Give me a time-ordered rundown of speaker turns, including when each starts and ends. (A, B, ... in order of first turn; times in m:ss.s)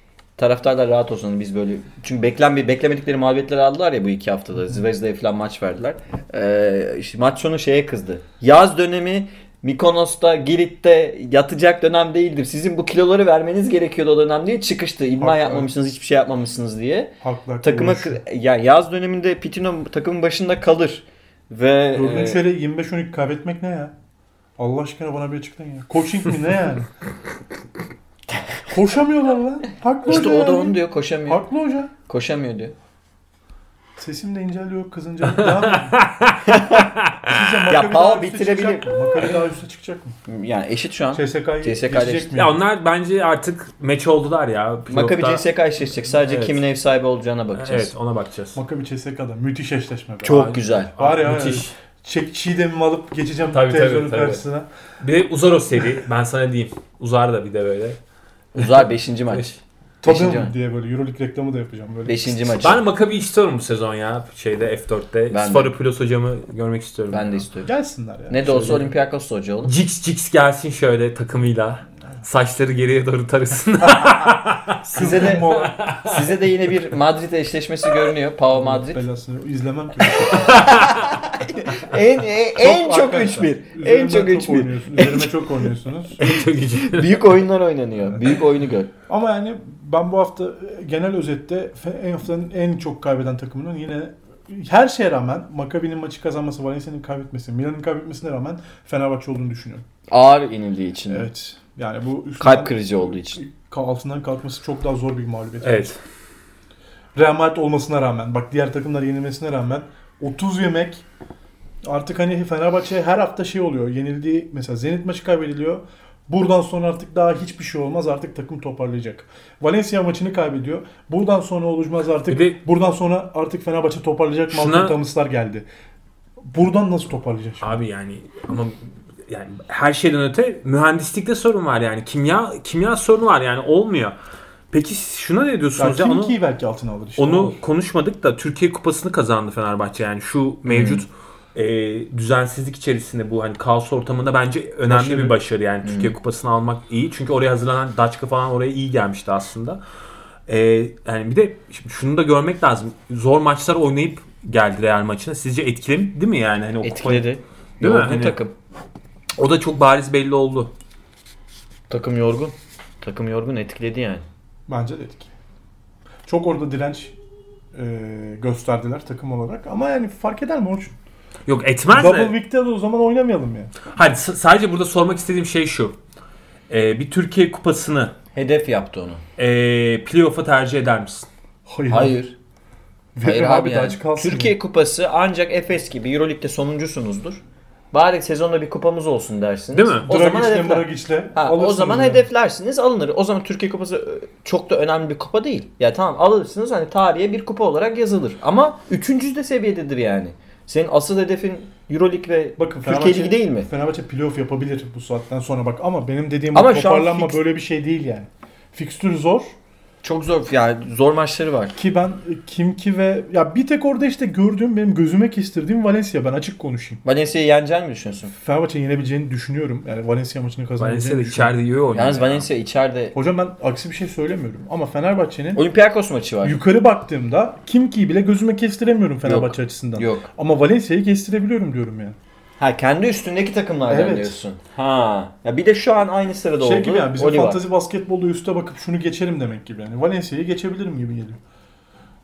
0:00.4-0:22.4 A
0:15.2-0:15.7 B
0:17.2-0:18.2 B
0:22.0-0:23.9 B
0:24.6-0:26.9 B
0:28.7-0:31.9 B
0:30.1-0:31.4 A
0:32.1-0:32.7 A
0:34.0-0:36.0 B
0:35.4-0:36.4 C
0:36.4-0:36.9 A
0:37.1-0:37.5 C
0:37.2-0:40.2 B
0:37.7-0:39.2 A
0:40.3-0:42.3 A
0:41.1-0:42.6 B
0:42.4-0:45.4 C
0:44.9-0:47.9 A
0:46.0-0:46.6 C
0:47.6-0:48.6 C
0:48.6-0:54.7 B
0:50.2-0:50.9 A
0:50.3-0:51.8 C
0:53.5-0:54.4 C
0:55.0-0:58.0 C
0:58.6-1:00.5 A
0:58.6-0:59.5 C
1:00.0-1:02.7 B
1:02.0-1:02.8 A
1:02.6-1:07.4 C
1:05.3-1:05.7 A
1:07.1-1:07.7 A
1:07.6-1:08.8 B
1:08.3-1:09.7 A
1:08.5-1:08.8 C
1:09.6-1:16.8 C
1:14.9-1:15.5 A
1:14.9-1:15.8 B
1:16.0-1:19.0 A
1:18.5-1:20.8 B
1:20.3-1:21.1 C
1:20.6-1:25.7 A
1:22.6-1:26.2 B
1:26.2-1:27.4 C
1:26.2-1:28.9 A
1:29.1-1:39.8 B
1:40.1-1:41.3 A
1:41.1-1:45.9 B
1:42.4-1:43.4 A
1:45.6-1:46.0 C
1:47.2-1:51.0 B
1:51.8-2:05.7 B
2:02.3-2:02.6 C
2:04.5-2:05.0 C
2:06.5-2:07.8 B
2:07.6-2:14.2 C
2:14.7-2:16.4 C
2:15.8-2:17.6 B
2:17.2-2:29.8 C
2:20.7-2:21.0 A
2:24.9-2:25.4 B
2:25.8-2:26.1 A
2:30.5-2:38.4 C
2:36.8-2:38.5 A
2:39.4-2:40.7 C
2:41.9-2:44.2 A
2:44.7-2:45.3 B
2:46.3-2:47.2 B
2:47.7-2:50.9 B
2:51.5-2:52.4 C
2:51.9-2:53.7 B
2:53.9-2:56.0 C
2:56.7-2:58.1 C
2:58.3-2:59.2 A
2:59.4-3:01.3 C
3:01.7-3:02.2 B
3:01.9-3:02.3 A
3:03.2-3:04.6 B
3:03.2-3:07.4 A
3:07.9-3:23.7 A
3:09.7-3:10.1 C
3:10.1-3:12.3 B
3:22.6-3:29.6 B
3:26.5-3:27.4 A
3:30.0-3:31.8 A
3:31.8-3:37.0 B
3:37.0-3:38.3 A
3:38.4-3:41.6 B
3:40.8-3:42.5 C
3:41.9-3:43.2 A
3:43.1-3:45.6 B
3:45.6-3:46.6 A
3:46.4-3:52.2 B
3:49.2-3:50.3 A
3:52.6-3:57.6 A
3:53.9-3:54.4 B
3:56.6-4:01.4 B